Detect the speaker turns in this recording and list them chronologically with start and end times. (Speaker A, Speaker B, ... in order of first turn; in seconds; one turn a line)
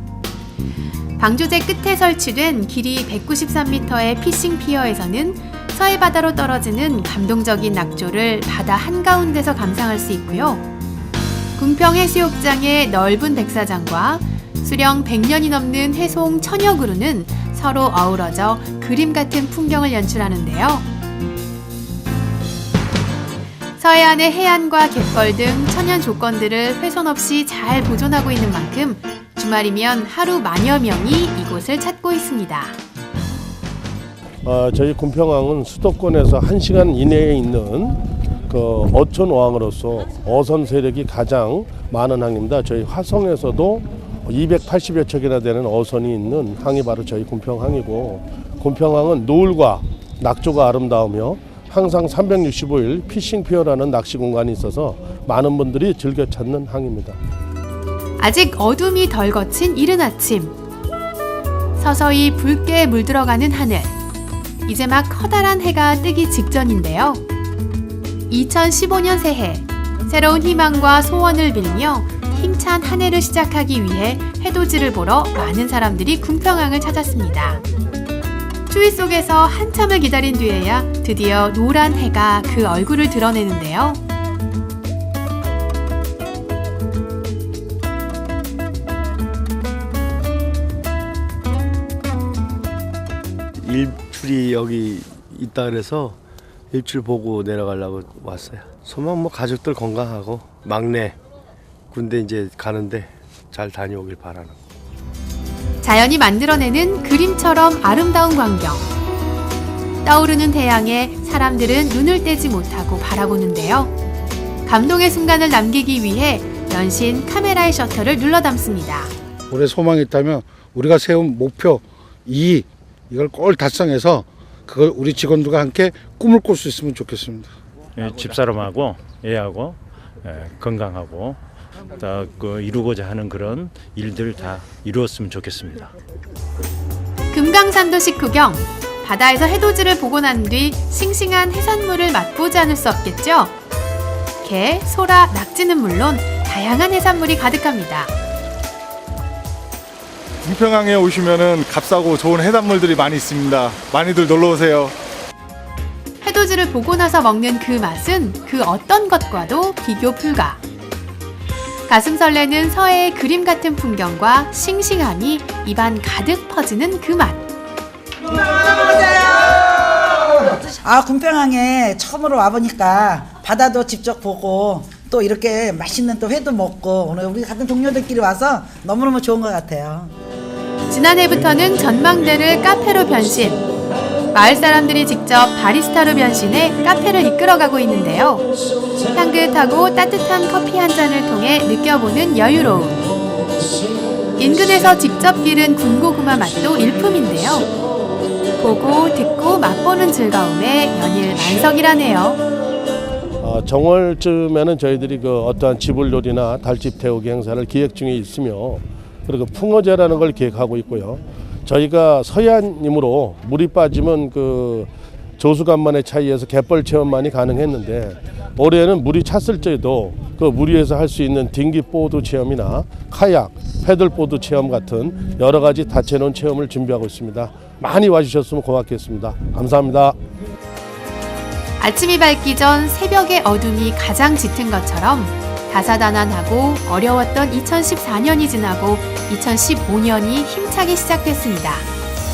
Speaker A: 1.2-10.6
Speaker A: 11.6-20.9
Speaker A: 23.8-32.8
Speaker B: 34.4-57.2
Speaker A: 58.2-60.5
Speaker A: 61.8-63.9
Speaker A: 64.6-67.2
Speaker A: 68.3-77.6
Speaker A: 78.7-84.0
Speaker C: 93.6-96.2
Speaker C: 96.7-101.2
Speaker C: 101.9-104.6
Speaker A: 105.8-108.8
Speaker A: 110.0-113.9
Speaker A: 114.7-119.1
Speaker D: 119.5-127.5
Speaker E: 128.0-131.4
Speaker E: 132.0-135.9
Speaker A: 137.3-143.5
Speaker A: 144.4-148.1
Speaker F: 150.4-154.9
Speaker A: 156.2-160.6
Speaker A: 161.9-167.4
Speaker G: 168.3-180.1
Speaker A: 180.9-183.6
Speaker A: 184.3-188.4
Speaker A: 189.1-193.1
Speaker A: 194.4-197.7
Speaker A: 198.6-202.4
Speaker B: 203.4-230.2
Speaker A: 231.8-241.9